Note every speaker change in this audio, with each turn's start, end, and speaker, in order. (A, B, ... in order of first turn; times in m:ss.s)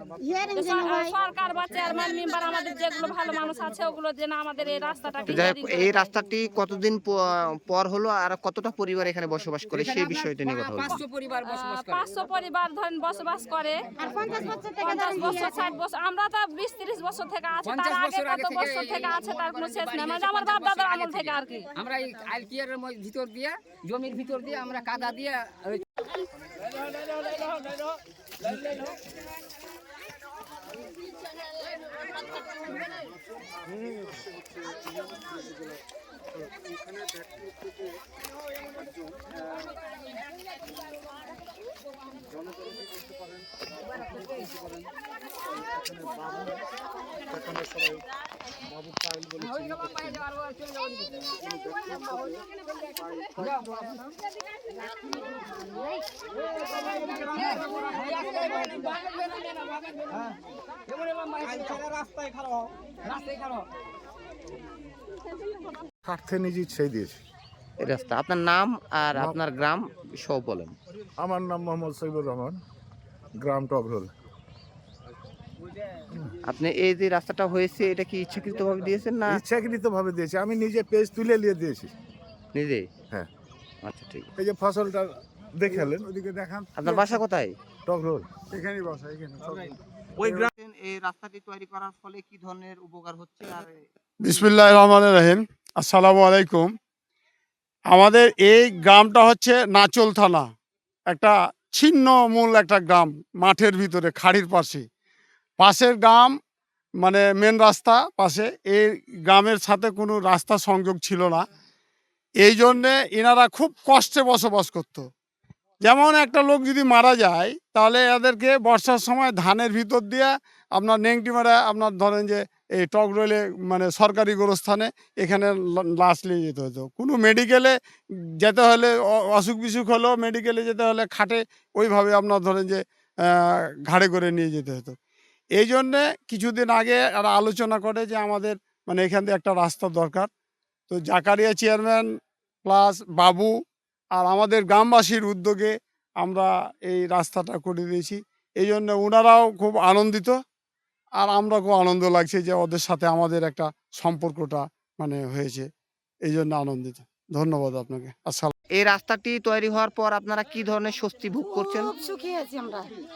0:00.2-0:01.1 A
0:00.5-0:05.9 B
0:05.3-0:11.0 C
0:09.8-0:12.0 D
0:10.8-0:21.7 B
0:14.0-0:15.7 A
0:17.6-0:25.8 D
0:33.7-0:34.8 E
0:37.1-0:37.5 E
0:42.5-0:43.1 E
0:45.8-0:46.2 E
0:48.9-0:49.4 E
0:49.4-0:50.8 B
0:57.4-0:58.5 B
1:06.0-1:07.2 F
1:07.8-1:10.8 C
1:11.2-1:12.6 F
1:13.4-1:14.1 F
1:16.5-1:19.4 C
1:19.3-1:21.9 F
1:22.5-1:22.9 C
1:23.8-1:24.3 C
1:24.4-1:26.1 F
1:25.6-1:27.2 E
1:26.8-1:27.6 C
1:27.8-1:28.3 F
1:28.5-1:30.5 E
1:30.2-1:34.4 C
1:34.2-1:36.7 E
1:37.9-1:40.4 E
1:41.1-1:44.8 E
1:45.6-1:46.3 E
1:47.0-1:51.4 E
1:52.4-1:55.1 E
1:55.8-2:07.7 E
2:08.4-2:15.0 E
2:15.5-2:20.3 E
2:20.9-2:22.1 E
2:22.6-2:23.5 E
2:24.1-2:30.4 E
2:31.2-2:35.7 E
2:36.2-2:38.5 E
2:38.7-2:41.9 C
2:41.4-2:42.8 A